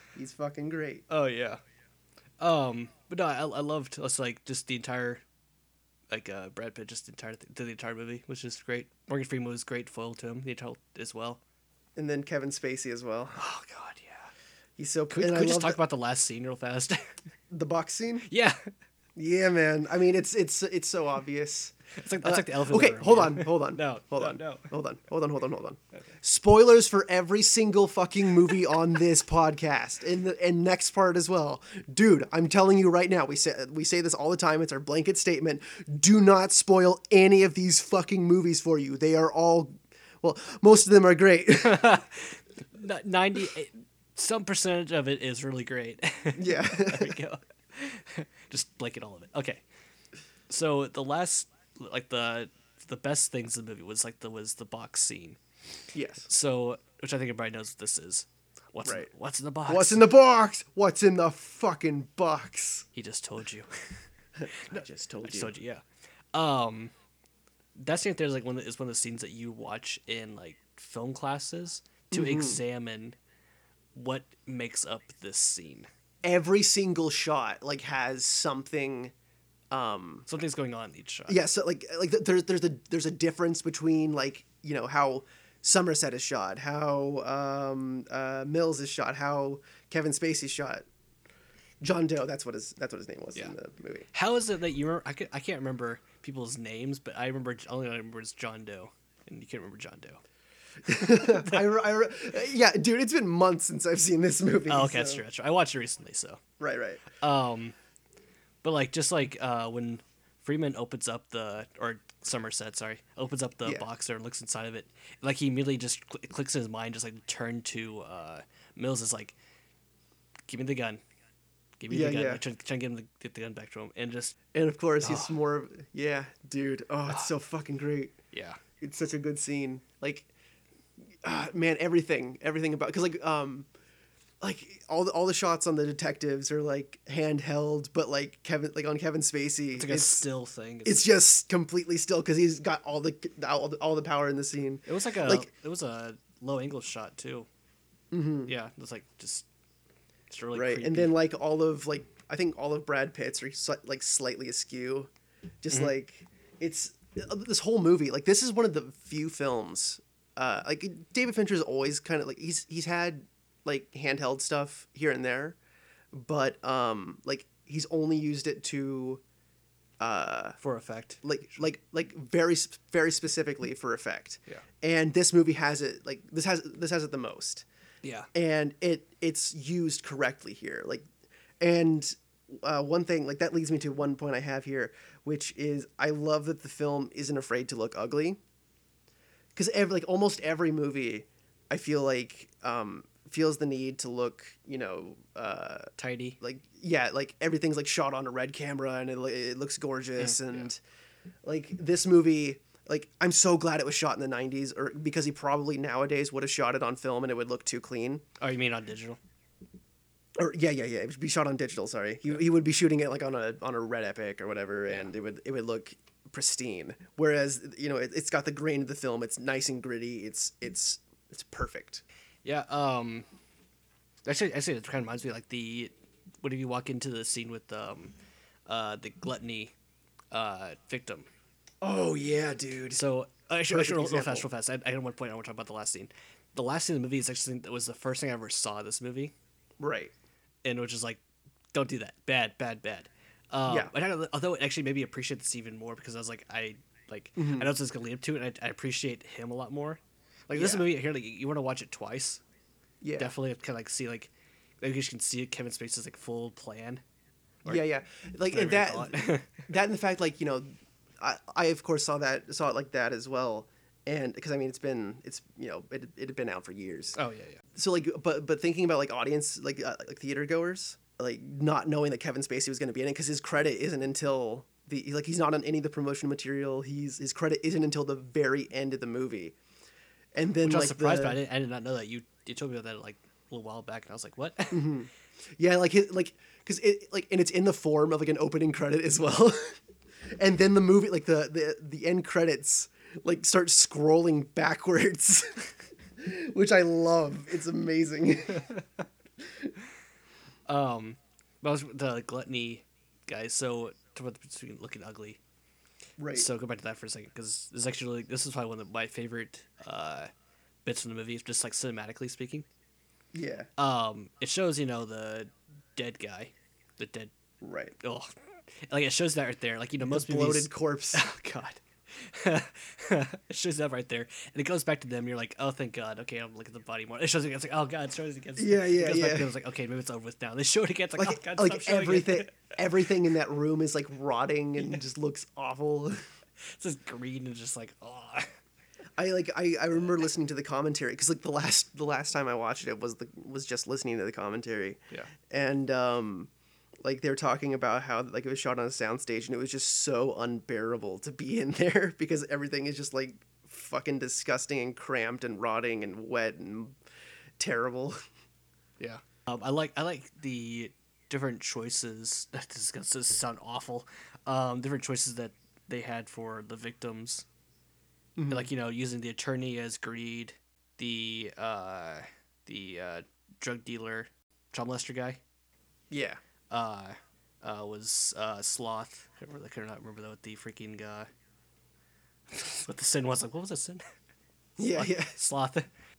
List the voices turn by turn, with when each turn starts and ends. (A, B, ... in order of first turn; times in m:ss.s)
0:00.2-0:01.0 A
0:01.1-0:01.6 B
0:02.4-0:05.2 B
0:06.1-0:11.4 B
0:12.0-0:13.4 A
0:13.4-0:14.3 B
0:14.8-0:15.8 A
0:15.1-0:17.2 B
0:17.5-0:18.3 A
0:18.3-0:18.7 B
0:19.2-0:41.9 A
0:22.0-0:24.7 B
0:41.5-0:49.6 B
0:46.4-0:47.2 A
0:50.5-0:55.4 B
0:55.9-0:56.3 A
0:56.3-1:00.1 B
0:59.7-1:02.9 A
1:03.0-1:04.0 B
1:04.4-1:05.6 A
1:04.6-1:05.8 B
1:06.3-1:06.9 B
1:07.8-1:13.2 B
1:12.1-1:12.6 A
1:14.0-1:15.9 B
1:16.2-1:19.1 A
1:19.7-1:20.3 A
1:20.3-1:21.4 B
1:21.3-1:30.9 A
1:31.8-1:34.1 A
1:34.1-1:40.2 B
1:40.8-1:45.2 A
1:41.1-1:41.6 B
1:44.7-1:46.4 B
1:46.6-1:47.0 A
1:47.2-1:47.8 B
1:48.6-1:59.4 B
2:00.5-2:01.0 B
2:01.8-2:04.4 B
2:01.9-2:02.4 A
2:04.5-2:08.2 A
2:05.0-2:05.3 B
2:08.3-2:08.6 B
2:08.8-2:10.3 A
2:11.2-2:13.7 A
2:14.4-2:20.3 A
2:19.8-2:21.1 B
2:20.8-2:25.5 A
2:24.9-2:27.5 B
2:28.1-2:28.5 A
2:28.5-2:29.5 B
2:30.3-2:31.2 B
2:30.5-2:35.1 A
2:35.6-2:45.6 A
2:46.1-2:49.2 A
2:50.0-2:50.6 A
2:50.6-2:51.2 B
2:51.2-2:57.7 A
2:58.0-2:58.3 B
2:58.3-3:01.0 A
3:01.6-3:08.4 A
3:09.6-3:20.8 A
3:16.0-3:16.4 B
3:20.2-3:20.7 B
3:21.4-3:28.2 A
3:28.4-3:29.2 B
3:30.4-3:42.0 A
3:42.4-3:43.2 B
3:44.2-3:48.1 B
3:48.7-3:49.7 B
3:50.3-3:51.3 B
3:51.8-3:53.0 A
3:52.9-3:59.3 B
3:53.7-3:54.5 A
3:59.8-4:00.1 A
4:00.6-4:01.2 B
4:01.7-4:12.4 B
4:03.7-4:03.9 A
4:07.4-4:07.7 A
4:10.6-4:10.9 A
4:13.0-4:13.3 A
4:13.2-4:17.0 B
4:17.7-4:20.7 A
4:18.5-4:19.6 B
4:21.2-4:27.2 A
4:27.2-4:27.6 B
4:27.8-4:39.6 A
4:40.4-4:41.4 A
4:40.6-4:44.9 B
4:44.7-4:49.8 A
4:50.4-4:55.7 A
4:56.2-4:58.7 A
4:58.6-4:58.8 B
5:00.7-5:05.4 B
5:06.2-5:06.5 A
5:06.3-5:10.3 B
5:10.8-5:12.7 B
5:13.3-5:13.7 A
5:13.8-5:17.3 B
5:17.6-5:18.0 A
5:18.0-5:32.5 B
5:20.0-5:21.2 A
5:28.6-5:29.5 A
5:31.2-5:36.2 A
5:36.6-5:38.5 B
5:39.2-5:46.5 A
5:47.0-5:57.0 A
5:57.6-5:58.2 A
5:59.0-6:07.5 B
6:08.4-6:08.7 A
6:08.5-6:15.4 B
6:16.1-6:16.4 A
6:16.7-6:21.3 B
6:22.5-6:24.0 B
6:24.8-6:25.4 A
6:24.8-6:25.9 B